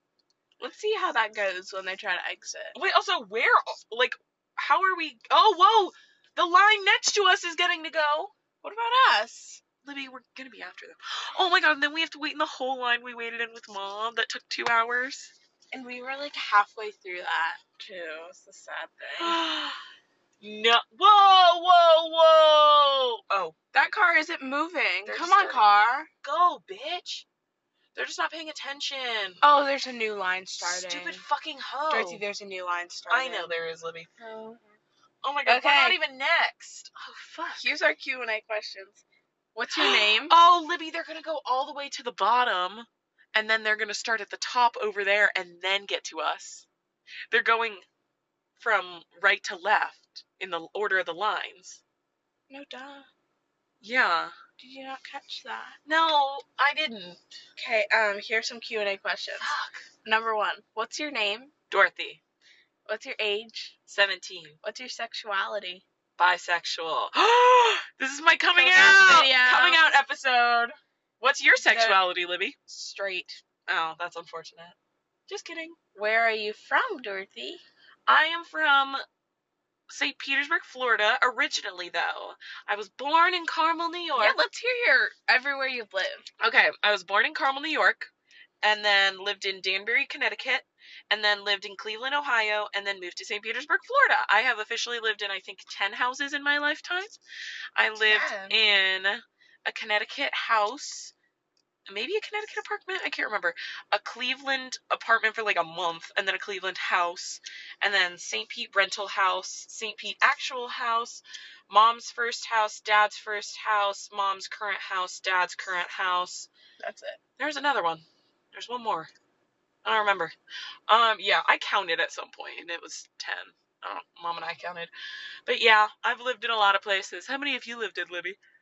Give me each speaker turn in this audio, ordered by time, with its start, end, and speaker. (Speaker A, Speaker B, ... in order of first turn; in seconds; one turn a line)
Speaker A: 0.6-2.8
Speaker B: 2.7-8.3
Speaker A: 8.6-9.6
Speaker B: 9.8-15.3
Speaker A: 15.7-19.4
Speaker B: 19.2-19.8
Speaker B: 20.4-23.6
Speaker A: 23.7-26.1
Speaker B: 25.1-25.6
Speaker B: 26.2-27.2
Speaker B: 27.9-29.4
Speaker A: 29.4-31.2
Speaker B: 30.6-32.2
Speaker A: 31.9-33.5
Speaker B: 33.1-34.1
Speaker A: 34.2-34.8
Speaker B: 35.2-37.6
Speaker A: 35.5-36.0
Speaker A: 37.6-39.0
Speaker A: 39.5-40.3
Speaker B: 39.7-46.6
Speaker B: 47.3-47.8
Speaker B: 48.6-51.8
Speaker A: 52.5-53.1
Speaker B: 53.8-54.3
Speaker A: 54.6-55.8
Speaker B: 55.9-57.2
Speaker A: 57.6-59.5
Speaker B: 59.4-59.8
Speaker A: 60.0-61.5
Speaker B: 61.7-62.2
Speaker A: 62.9-63.8
Speaker B: 63.9-64.6
Speaker A: 64.6-65.8
Speaker B: 66.2-72.6
Speaker A: 68.5-69.9
Speaker A: 71.6-72.0
Speaker A: 72.7-73.4
Speaker B: 73.7-74.8
Speaker B: 75.3-75.8
Speaker A: 75.9-77.6
Speaker B: 78.1-79.0
Speaker B: 79.9-84.4
Speaker A: 84.2-86.2
Speaker B: 86.4-88.1
Speaker B: 88.6-97.2
Speaker B: 97.7-101.1
Speaker A: 98.0-98.6
Speaker B: 101.9-116.5
Speaker A: 116.8-117.2
Speaker B: 117.4-119.1
Speaker B: 119.8-120.3
Speaker B: 120.9-124.9
Speaker B: 125.5-128.4